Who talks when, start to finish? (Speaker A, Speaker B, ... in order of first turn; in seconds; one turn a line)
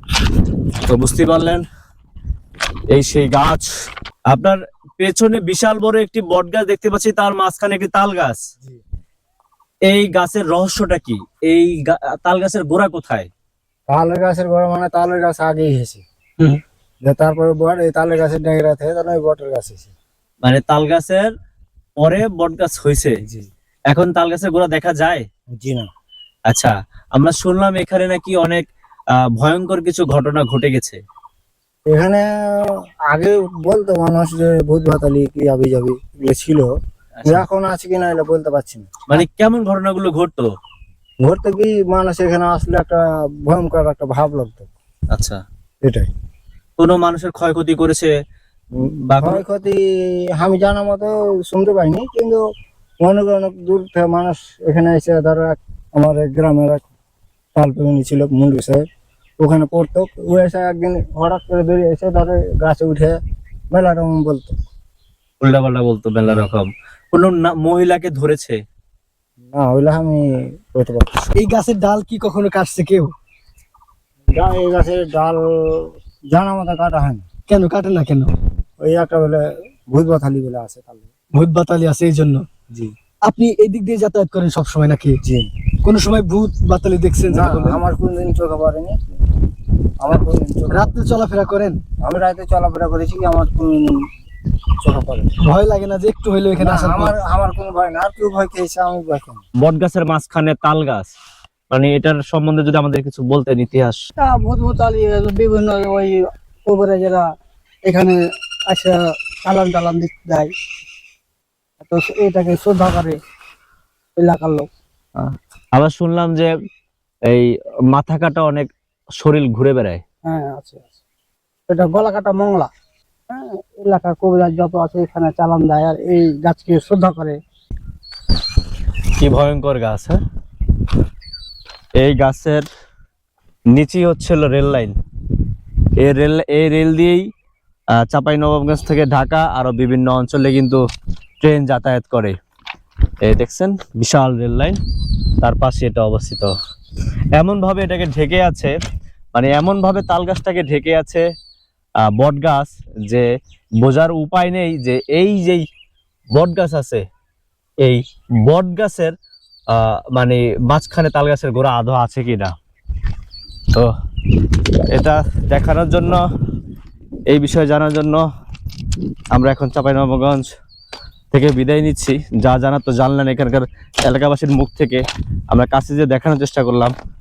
Speaker A: 0.9-1.6
Speaker A: 2.9-3.7
Speaker A: 4.3-8.4
Speaker A: 9.9-13.3
Speaker B: 13.9-16.0
Speaker B: 17.1-19.9
Speaker A: 20.4-21.3
Speaker A: 22.0-23.2
Speaker A: 23.9-25.2
Speaker B: 25.5-25.9
Speaker A: 26.5-28.7
Speaker A: 29.4-31.0
Speaker B: 31.9-32.3
Speaker B: 33.1-36.7
Speaker B: 37.3-39.2
Speaker A: 39.1-40.5
Speaker B: 41.2-44.7
Speaker A: 45.1-45.4
Speaker B: 45.8-46.1
Speaker A: 46.8-48.1
Speaker B: 48.8-52.4
Speaker A: 49.1-49.4
Speaker B: 53.0-56.8
Speaker B: 57.6-58.8
Speaker B: 59.4-63.2
Speaker B: 63.7-64.5
Speaker A: 65.4-68.6
Speaker B: 69.5-71.1
Speaker C: 71.3-73.1
Speaker B: 74.3-77.2
Speaker C: 77.5-78.3
Speaker B: 78.8-81.1
Speaker C: 81.3-82.5
Speaker C: 83.2-85.2
Speaker B: 85.2-85.5
Speaker C: 85.8-87.8
Speaker B: 87.3-89.1
Speaker B: 90.0-91.0
Speaker C: 90.7-91.8
Speaker B: 92.0-93.9
Speaker B: 94.8-95.3
Speaker C: 95.4-97.1
Speaker B: 96.6-99.4
Speaker A: 99.6-101.1
Speaker A: 101.7-104.0
Speaker D: 104.2-107.2
Speaker D: 107.8-110.5
Speaker D: 111.8-113.2
Speaker D: 114.2-114.7
Speaker A: 115.2-116.5
Speaker A: 117.3-118.7
Speaker A: 119.2-120.0
Speaker D: 120.2-120.9
Speaker D: 121.7-122.7
Speaker D: 123.3-127.4
Speaker A: 129.2-130.2
Speaker A: 132.0-132.7
Speaker A: 133.7-134.9
Speaker A: 136.0-137.2
Speaker A: 138.0-140.8
Speaker A: 141.4-142.3
Speaker A: 143.2-144.8
Speaker A: 145.4-146.5
Speaker A: 147.4-148.8
Speaker A: 149.3-151.2
Speaker A: 152.1-153.2
Speaker A: 153.8-155.6
Speaker A: 156.3-157.0
Speaker A: 157.8-159.1
Speaker A: 159.7-162.5
Speaker A: 164.9-166.2
Speaker A: 167.3-168.2
Speaker A: 169.3-170.5
Speaker A: 171.3-176.9